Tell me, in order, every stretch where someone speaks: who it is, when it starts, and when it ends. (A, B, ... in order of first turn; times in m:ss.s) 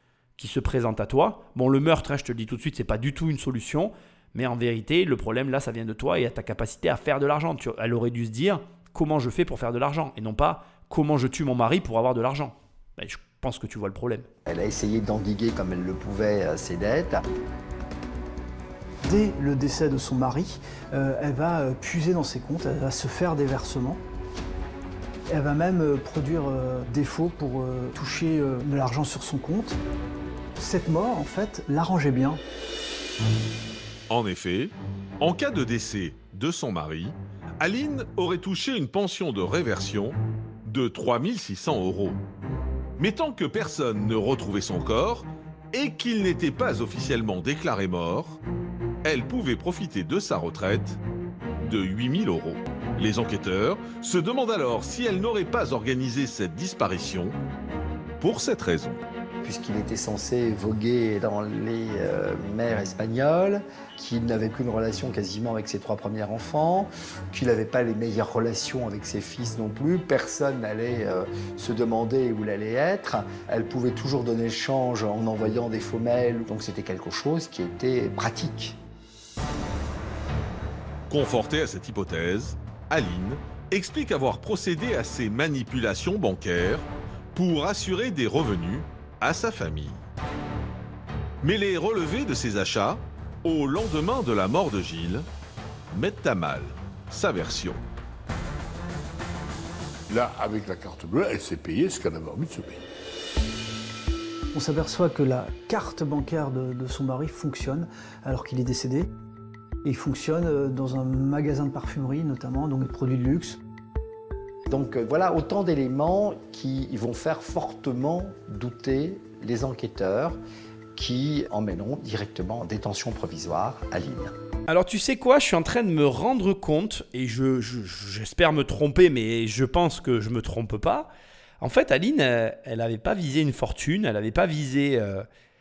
0:00.4-0:14.3 A
0:14.5-0:17.2 B
0:19.0-0:24.0 C
0:25.3-0:29.8 C
0:30.6-0:32.4 C
0:34.1-0:42.2 D
0:43.0-0:48.4 D
0:49.0-0:51.0 D
0:51.6-0:57.4 D
0:58.2-0:59.0 D
0:59.4-1:18.8 B
1:21.1-1:30.0 D
1:31.4-1:35.3 D
1:35.9-1:37.8 D
1:40.1-1:42.8 E
1:44.5-1:49.1 C
1:49.8-1:53.6 C
1:54.7-2:00.4 B
2:01.0-2:04.3 B
2:04.7-2:15.3 A